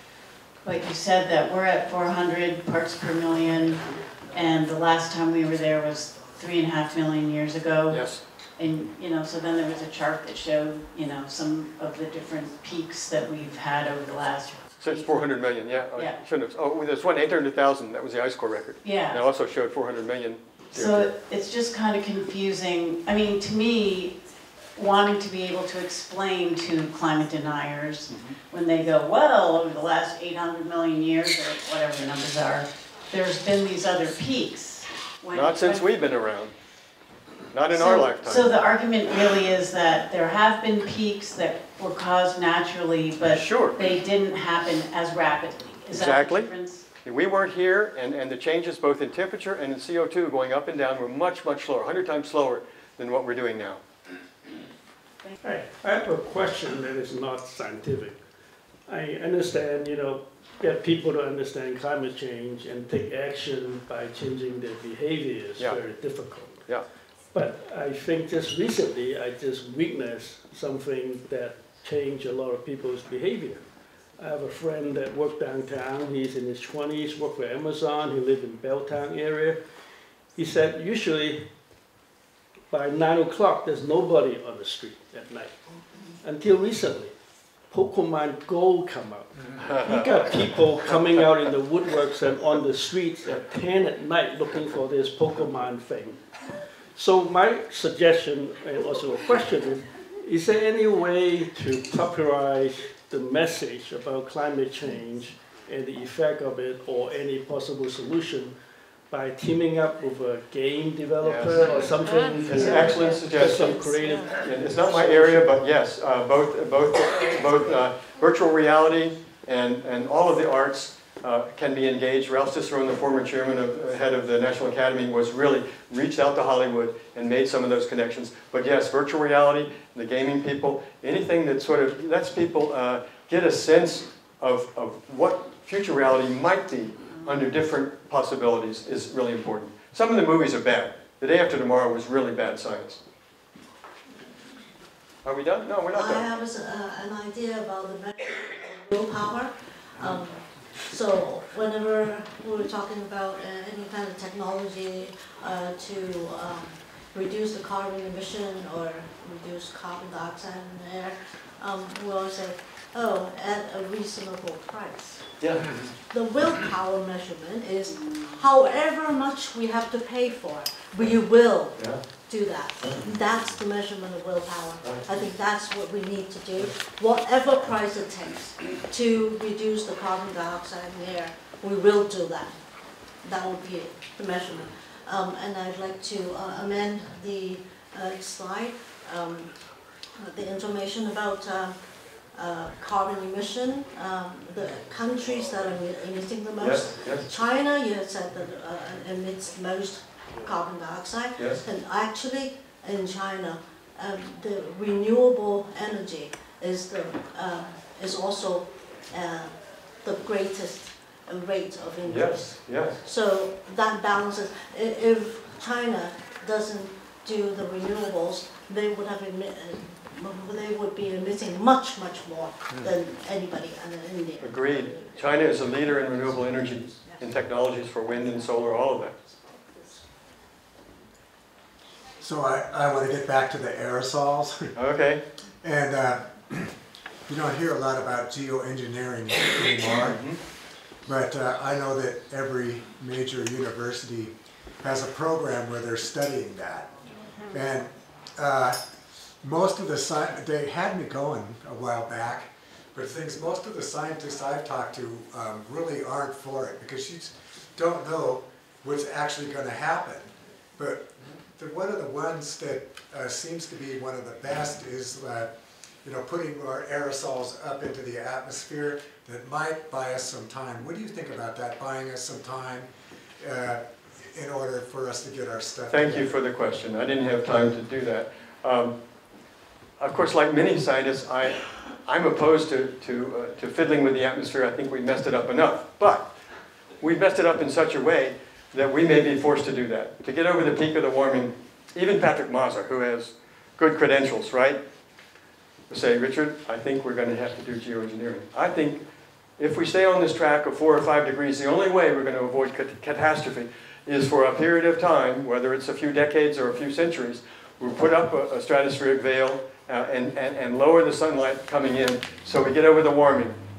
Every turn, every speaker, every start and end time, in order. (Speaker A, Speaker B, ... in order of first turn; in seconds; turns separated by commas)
Speaker A: 0.6-15.3, Speaker B: 7.9-8.2, Speaker B: 14.8-21.1, Speaker A: 15.9-16.2, Speaker A: 18.8-19.2, Speaker A: 20.7-24.2, Speaker A: 24.7-35.9, Speaker B: 28.1-28.4, Speaker B: 35.3-36.5, Speaker B: 37.5-38.5, Speaker A: 37.7-46.8, Speaker B: 43.2-43.8, Speaker B: 45.9-46.5, Speaker B: 47.0-53.8, Speaker C: 55.4-58.2, Speaker C: 58.9-66.6, Speaker C: 67.3-73.6, Speaker C: 74.2-79.6, Speaker C: 80.3-81.5, Speaker C: 82.7-85.6, Speaker C: 86.2-87.1, Speaker C: 87.7-96.2, Speaker B: 89.6-91.4, Speaker C: 96.9-108.5, Speaker C: 109.1-115.5, Speaker B: 111.2-113.8, Speaker D: 113.7-114.1, Speaker B: 114.3-143.0, Speaker B: 145.2-146.3, Speaker D: 145.9-165.4, Speaker B: 165.4-165.8, Speaker D: 166.1-189.6, Speaker B: 171.7-172.0, Speaker B: 172.8-173.1, Speaker B: 174.8-175.1, Speaker D: 190.2-225.8, Speaker B: 196.6-197.3, Speaker B: 201.4-201.6, Speaker B: 212.1-213.0, Speaker B: 224.4-229.1, Speaker D: 229.4-230.0, Speaker E: 232.2-234.7, Speaker B: 234.7-235.2, Speaker E: 235.6-236.7, Speaker E: 237.2-240.3, Speaker B: 240.0-240.4, Speaker E: 241.0-248.8, Speaker E: 249.4-276.3, Speaker B: 275.9-278.9, Speaker B: 280.0-286.3, Speaker B: 287.0-294.8, Speaker B: 295.9-299.0, Speaker B: 299.6-313.6